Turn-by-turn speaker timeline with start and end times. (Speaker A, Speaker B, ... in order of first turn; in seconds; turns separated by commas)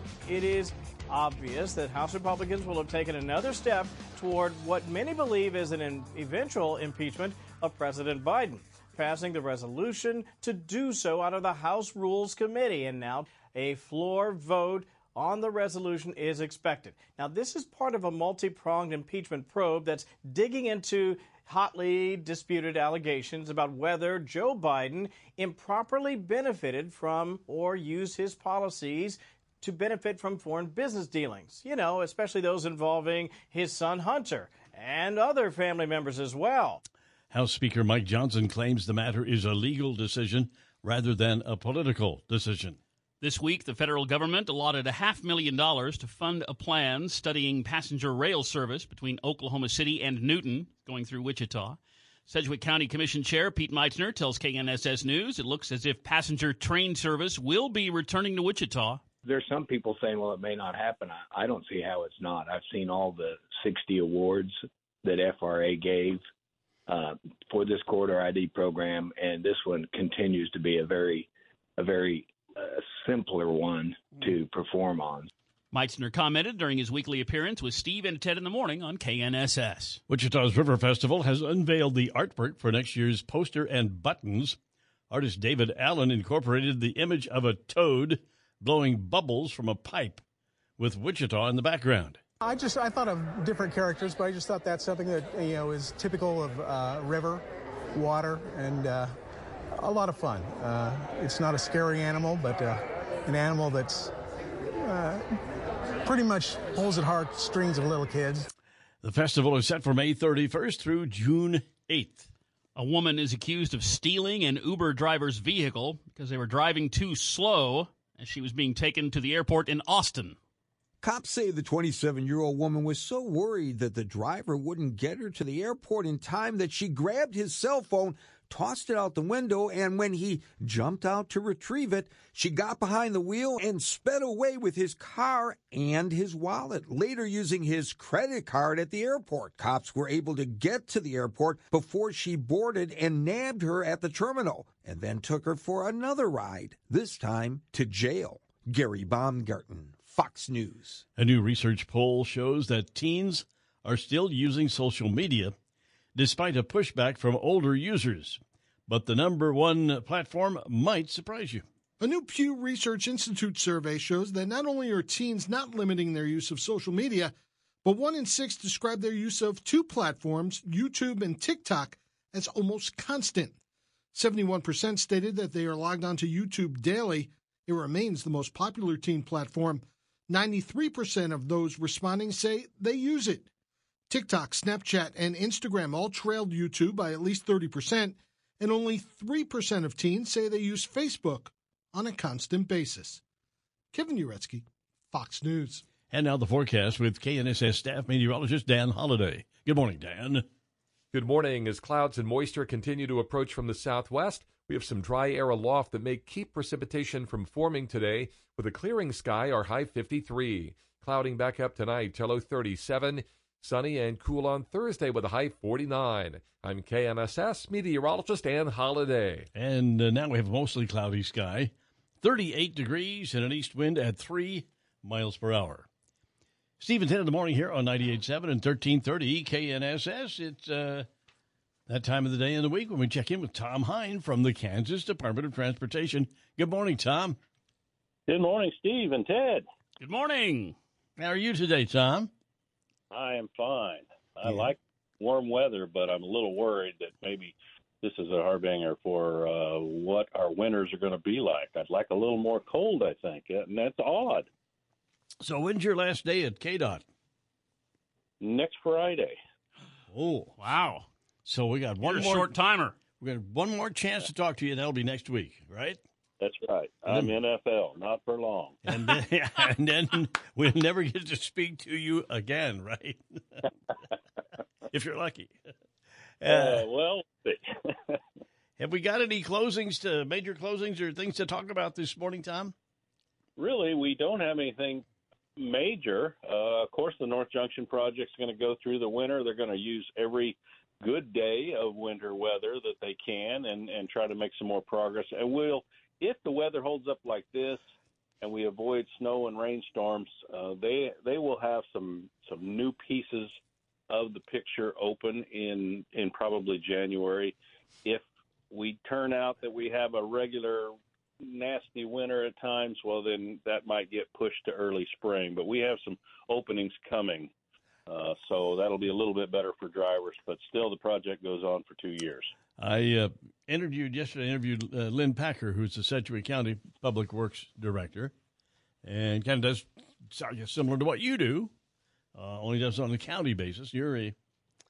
Speaker A: 0.3-36.8, Speaker B: 37.3-42.8, Speaker C: 43.2-59.0, Speaker D: 59.2-66.2, Speaker D: 66.9-75.3, Speaker C: 75.7-80.0, Speaker B: 80.1-84.6, Speaker B: 85.1-90.2, Speaker B: 90.8-92.2, Speaker E: 92.4-97.4, Speaker E: 98.0-99.2, Speaker E: 99.8-104.1, Speaker E: 104.8-105.4, Speaker E: 106.0-108.5, Speaker B: 109.0-112.3, Speaker C: 112.8-120.4, Speaker F: 121.0-151.0, Speaker B: 151.2-155.6, Speaker B: 156.2-161.6, Speaker G: 162.0-167.3, Speaker G: 167.8-173.6, Speaker G: 174.1-183.5, Speaker G: 184.1-193.2, Speaker G: 193.9-195.8, Speaker B: 196.1-200.4, Speaker H: 201.1-219.5, Speaker B: 219.6-225.9, Speaker B: 226.8-231.1, Speaker B: 231.9-237.4, Speaker I: 238.3-239.7, Speaker C: 240.0-240.8, Speaker B: 241.2-242.3, Speaker I: 243.1-254.5, Speaker B: 255.4-257.0, Speaker I: 258.4-259.4, Speaker B: 260.1-260.7, Speaker C: 260.6-261.1, Speaker B: 261.5-262.5, Speaker C: 262.0-263.0, Speaker B: 263.2-266.0, Speaker I: 266.4-268.8, Speaker B: 267.1-267.4, Speaker B: 268.9-273.6, Speaker B: 274.9-275.6, Speaker B: 276.4-276.9, Speaker I: 276.4-278.2, Speaker B: 278.8-282.7, Speaker I: 283.6-285.0, Speaker I: 285.6-297.8, Speaker I: 298.4-303.5, Speaker I: 304.1-317.5, Speaker I: 318.1-322.5, Speaker B: 322.8-328.3, Speaker B: 329.0-331.7, Speaker B: 332.4-334.4